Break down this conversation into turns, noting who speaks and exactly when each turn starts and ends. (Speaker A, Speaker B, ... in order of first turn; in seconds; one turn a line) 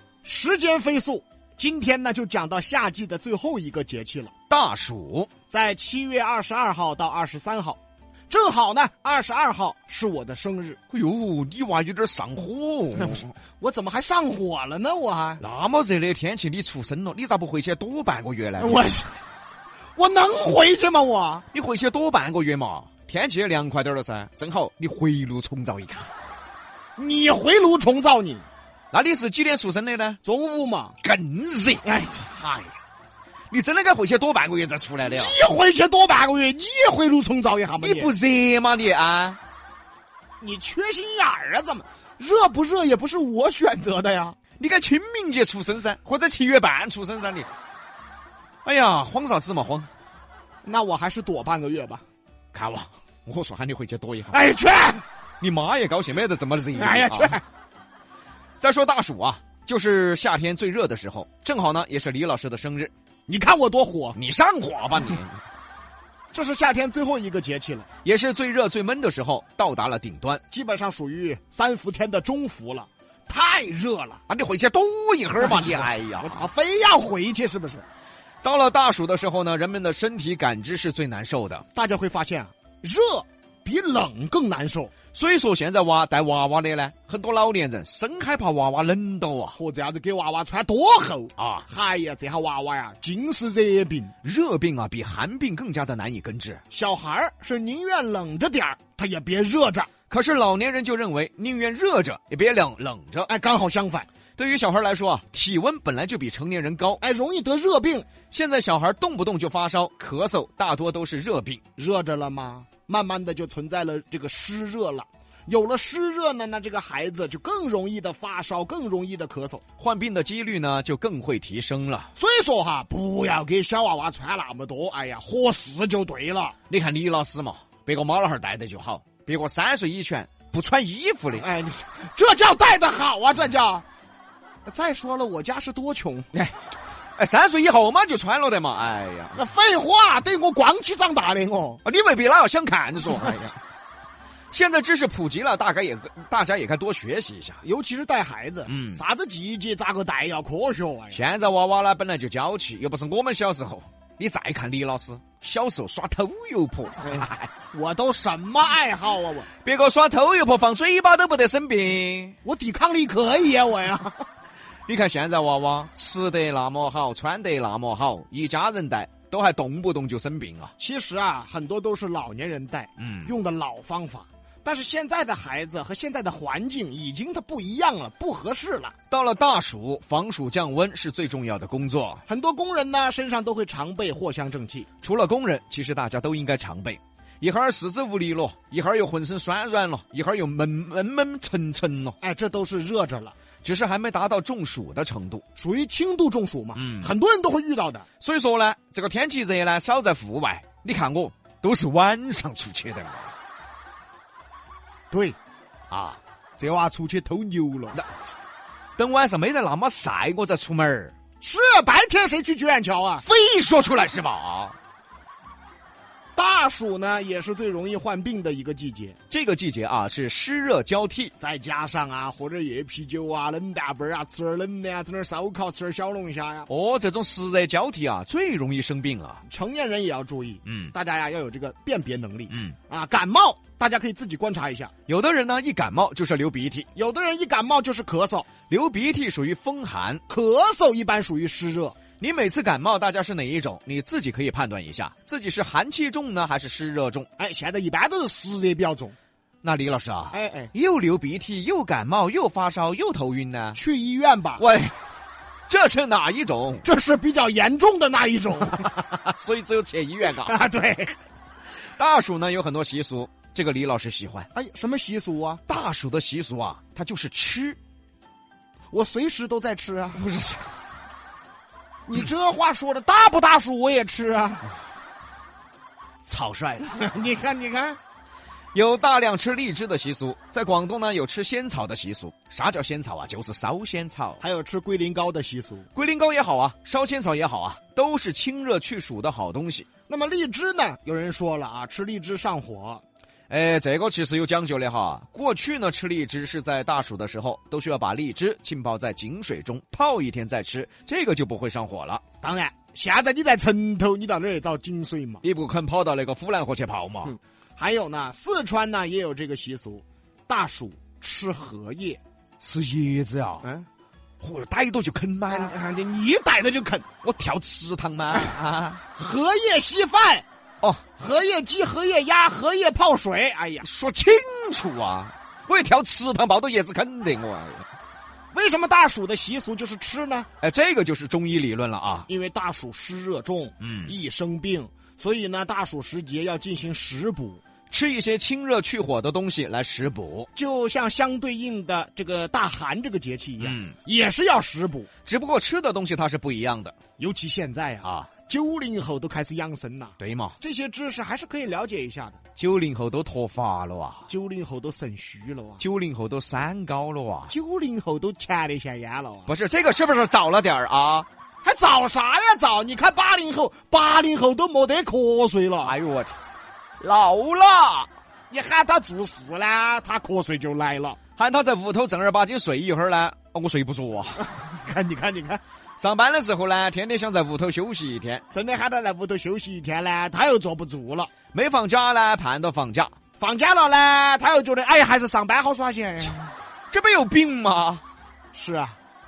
Speaker A: 0.2-4.3
Speaker B: 4.5-5.3
Speaker A: 5.5-7.8
Speaker A: 8.3-10.8
Speaker B: 10.9-13.3
Speaker A: 12.9-15.4
Speaker B: 15.4-18.9
Speaker A: 18.6-19.1
Speaker A: 19.9-21.4
Speaker B: 21.5-26.1
Speaker A: 27.0-28.4
Speaker B: 28.9-30.2
Speaker A: 30.2-30.9
Speaker B: 31.0-31.8
Speaker A: 31.8-32.8
Speaker B: 33.5-35.4
Speaker A: 35.0-38.1
Speaker B: 37.8-39.4
Speaker A: 40.4-44.4
Speaker B: 44.6-47.5
Speaker B: 48.6-49.9
Speaker A: 50.6-52.0
Speaker B: 52.5-54.4
Speaker A: 54.3-55.0
Speaker B: 55.4-57.4
Speaker A: 56.7-57.4
Speaker B: 58.6-62.9
Speaker A: 63.3-64.2
Speaker B: 64.1-65.4
Speaker A: 66.3-67.9
Speaker B: 68.0-70.4
Speaker A: 70.5-74.2
Speaker B: 74.3-76.4
Speaker A: 75.4-77.8
Speaker B: 78.4-81.6
Speaker A: 81.7-84.9
Speaker B: 85.1-89.6
Speaker A: 89.5-94.1
Speaker B: 91.4-91.7
Speaker B: 94.2-96.6
Speaker A: 96.7-99.9
Speaker B: 100.1-103.3
Speaker A: 103.3-104.1
Speaker B: 104.4-107.0
Speaker A: 107.0-108.1
Speaker B: 108.3-111.6
Speaker A: 111.8-119.6
Speaker B: 119.8-122.1
Speaker A: 122.2-126.5
Speaker B: 126.7-131.5
Speaker A: 131.4-133.8
Speaker A: 134.7-136.3
Speaker B: 136.3-136.6
Speaker B: 137.2-139.4
Speaker A: 139.3-141.8
Speaker B: 141.8-143.6
Speaker B: 144.5-147.6
Speaker A: 147.6-151.2
Speaker B: 148.7-149.0
Speaker B: 151.1-157.5
Speaker A: 157.7-159.5
Speaker B: 159.6-162.4
Speaker A: 162.4-164.2
Speaker B: 164.9-170.7
Speaker A: 170.8-178.9
Speaker B: 173.0-173.3
Speaker B: 179.1-182.2
Speaker A: 182.3-184.9
Speaker B: 185.0-192.2
Speaker A: 192.2-193.3
Speaker B: 193.6-195.4
Speaker A: 195.6-198.1
Speaker B: 196.8-197.1
Speaker B: 198.2-203.3
Speaker A: 205.1-205.3
Speaker B: 205.9-206.2
Speaker A: 206.6-208.0
Speaker B: 209.0-211.1
Speaker A: 211.4-213.2
Speaker B: 213.2-214.8
Speaker A: 216.3-219.2
Speaker B: 219.3-221.3
Speaker A: 221.4-226.7
Speaker B: 226.7-229.4
Speaker A: 229.5-234.9
Speaker B: 230.6-230.9
Speaker B: 232.5-232.8
Speaker B: 235.1-236.9
Speaker A: 236.9-238.5
Speaker B: 238.7-240.2
Speaker A: 240.3-241.9
Speaker B: 242.2-247.3
Speaker A: 247.4-249.1
Speaker B: 249.6-253.8
Speaker A: 250.3-250.7
Speaker A: 253.7-254.6
Speaker B: 254.6-254.9
Speaker B: 255.7-256.8
Speaker A: 256.8-258.9
Speaker B: 259.2-260.6
Speaker A: 260.3-261.1
Speaker B: 262.0-264.5
Speaker A: 264.5-265.6
Speaker B: 265.7-267.8
Speaker A: 268.9-270.2
Speaker B: 270.1-270.7
Speaker A: 272.1-274.6
Speaker B: 276.2-277.0
Speaker A: 276.9-278.0
Speaker B: 278.7-284.4
Speaker A: 284.4-285.9
Speaker B: 285.9-289.9
Speaker A: 290.1-293.0
Speaker B: 293.5-302.2
Speaker A: 302.4-305.4
Speaker B: 305.4-307.3
Speaker A: 307.2-312.2
Speaker B: 312.6-313.7
Speaker B: 314.4-315.8
Speaker A: 315.5-317.1
Speaker B: 317.2-319.0
Speaker A: 319.1-320.4
Speaker A: 321.2-323.9
Speaker B: 323.8-327.9
Speaker A: 328.5-330.5
Speaker B: 330.6-332.3
Speaker A: 332.3-337.6
Speaker B: 333.8-334.1
Speaker B: 337.9-340.5
Speaker A: 340.6-345.1
Speaker B: 343.6-343.9
Speaker B: 345.2-346.9
Speaker A: 347.2-352.4
Speaker B: 348.0-348.3
Speaker B: 350.2-350.6
Speaker B: 352.6-354.3
Speaker A: 354.3-355.8
Speaker B: 355.8-357.5
Speaker A: 357.5-359.5
Speaker B: 359.5-361.3
Speaker A: 361.6-366.0
Speaker B: 365.8-366.4
Speaker B: 367.0-368.1
Speaker A: 368.5-371.2
Speaker B: 371.4-374.4
Speaker A: 374.4-375.6
Speaker B: 376.0-378.4
Speaker A: 378.5-381.3
Speaker B: 381.5-383.1
Speaker A: 383.4-386.5
Speaker B: 386.9-388.0
Speaker A: 388.5-389.0